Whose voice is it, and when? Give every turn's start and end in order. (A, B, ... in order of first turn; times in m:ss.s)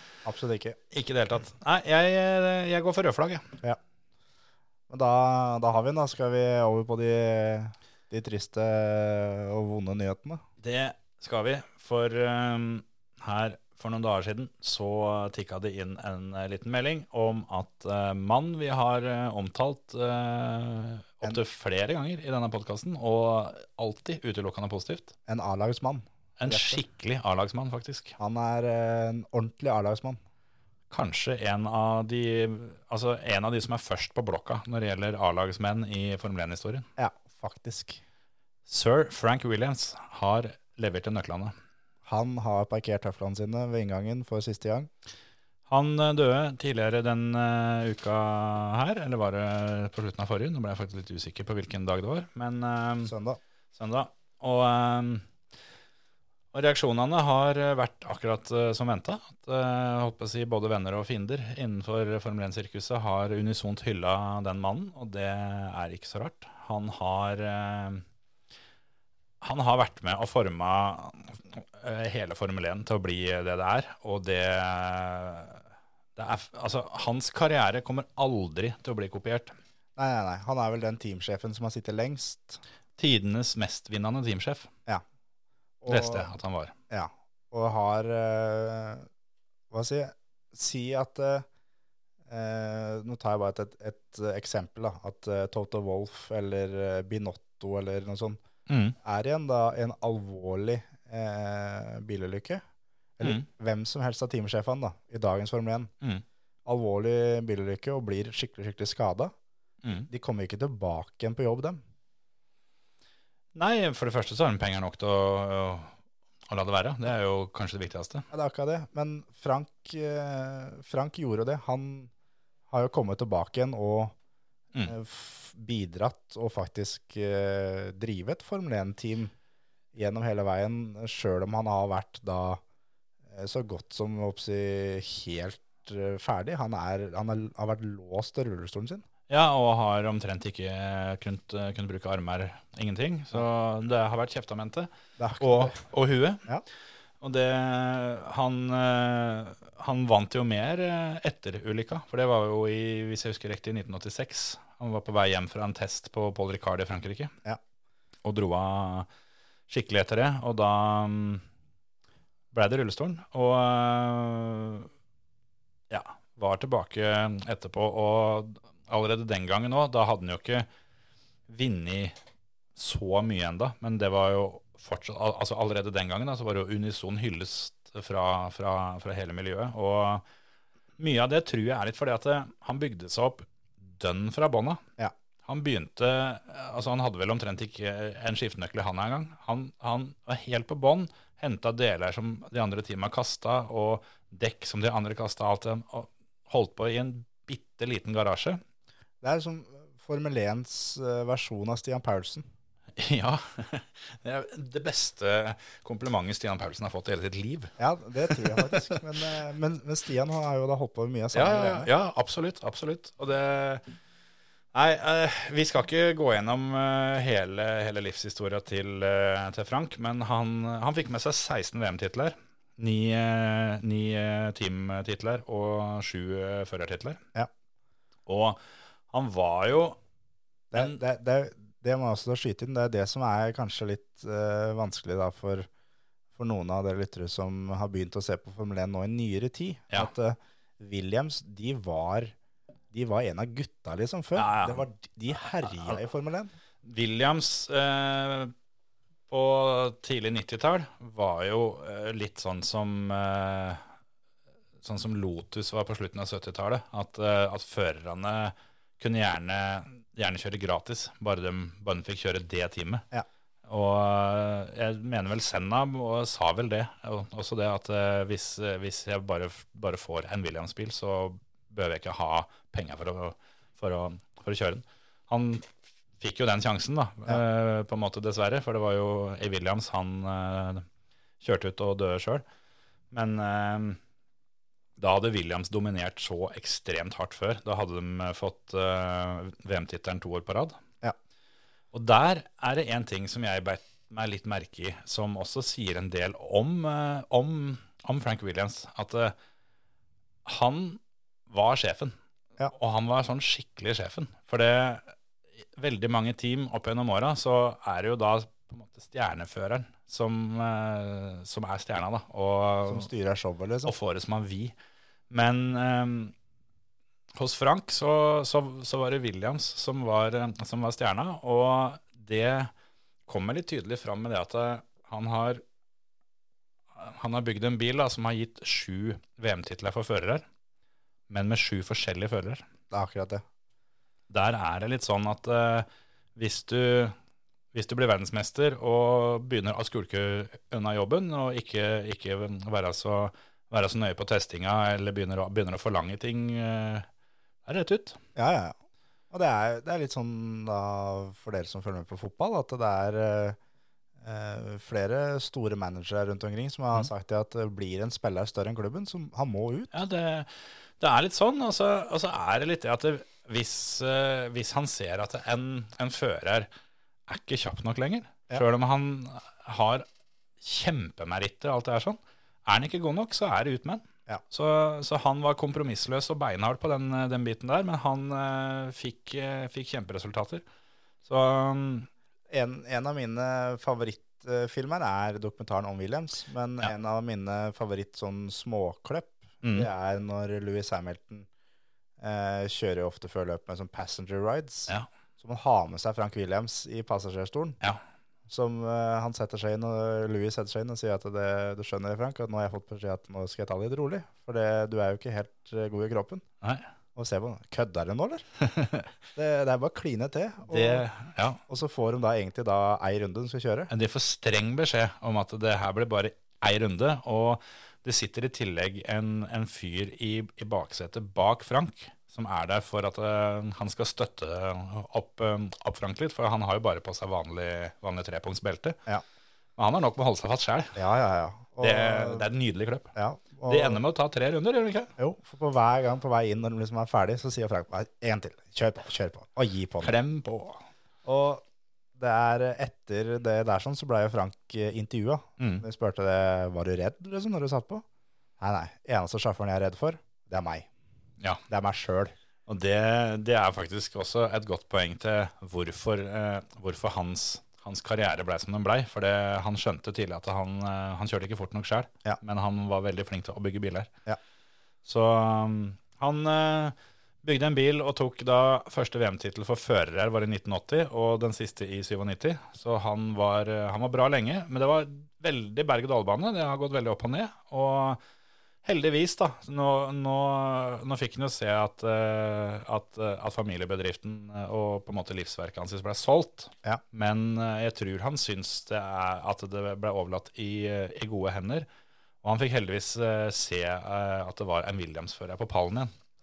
0:00.2-0:00.8 A
0:00.9-0:03.4 B
0:04.9-0:10.4 A
0:10.6-0:25.1 B
0:25.3-0:26.8 A
0:26.4-0:28.2 B
0:28.2-0:30.2 A
0:30.9-0:36.9 B
0:37.0-0:38.0 A
0:38.7-0:41.5 B
0:42.0-0:44.9 A
0:45.7-0:53.1 B
0:53.1-0:53.4 A
0:53.7-0:55.3 B
0:56.5-1:08.0 B
1:09.4-1:15.6 B
1:16.2-1:19.5 B
1:20.0-1:22.6 A
1:23.0-1:24.7 B
1:25.8-1:26.3 A
1:25.9-1:26.7 B
1:26.9-1:29.1 A
1:29.7-1:31.5 A
1:32.3-1:38.4 A
1:38.7-1:39.0 B
1:39.0-1:42.6 A
1:43.2-1:45.9 A
1:43.2-1:43.5 B
1:46.7-1:49.3 A
1:49.8-1:50.1 B
1:50.1-1:51.8 A
1:53.6-1:55.9 B
1:56.5-1:58.3 B
1:58.3-2:02.1 A
2:02.7-2:04.2 A
2:04.9-2:09.3 A
2:10.0-2:12.6 A
2:13.3-2:19.0 A
2:19.3-2:26.5 B
2:25.2-2:25.8 A
2:27.2-2:37.3 B
2:38.2-2:39.1 B
2:39.7-2:41.4 B
2:42.5-2:44.9 B
2:45.9-2:50.7 B
2:51.5-2:52.2 B
2:52.8-3:00.2 B
3:01.0-3:04.8 B
3:05.4-3:18.6 B
3:19.2-3:22.5 A
3:23.0-3:27.7 B
3:27.8-3:31.9 A
3:28.2-3:29.0 B
3:31.3-3:33.9 B
3:34.7-3:47.2 B
3:48.3-3:50.0 B
3:50.7-3:55.7 A
3:50.8-3:51.0 B
3:56.4-4:02.3 A
4:02.9-4:06.5 A
4:04.4-4:04.9 B
4:05.7-4:05.9 B
4:06.8-4:08.5 B
4:09.3-4:13.8 B
4:14.8-4:23.1 B
4:23.7-4:40.8 B
4:41.4-4:42.4 B
4:43.1-4:44.0 B
4:45.0-4:50.8 B
4:51.9-4:59.4 B
5:00.4-5:02.2 B
5:02.7-5:05.1 B
5:05.8-5:13.1 B
5:12.8-5:13.9 A
5:13.8-5:14.8 B
5:15.3-5:16.3 B
5:17.4-5:22.7 B
5:23.3-5:25.6 B
5:27.0-5:30.4 B
5:31.3-5:32.6 B
5:32.9-5:33.4 A
5:34.3-5:37.2 B
5:37.7-5:47.1 B
5:47.6-5:48.2 B
5:48.4-5:48.7 A
5:49.3-5:53.6 A
5:54.2-5:59.9 A
5:59.9-6:06.7 B
6:07.3-6:10.0 B
6:10.6-6:20.6 B
6:21.2-6:22.1 B
6:22.5-6:31.5 A
6:29.6-6:29.9 B
6:32.2-6:37.8 A
6:38.5-6:46.4 A
6:47.2-6:48.4 A
6:48.6-6:49.1 B
6:49.4-6:51.1 A
6:50.7-6:51.6 B
6:51.7-6:53.9 A
6:53.9-7:09.0 B
7:09.8-7:11.0 B
7:11.0-7:12.5 A
7:11.8-7:13.2 B
7:13.2-7:14.0 A
7:13.7-7:15.1 B
7:15.2-7:20.1 A
7:20.0-7:20.8 B
7:21.2-7:21.6 A
7:22.2-7:28.0 A
7:25.6-7:25.8 B
7:28.6-7:30.9 A
7:31.7-7:32.4 A
7:32.7-7:44.1 B
7:45.0-7:58.2 B
7:58.8-8:11.9 B
8:12.4-8:16.1 B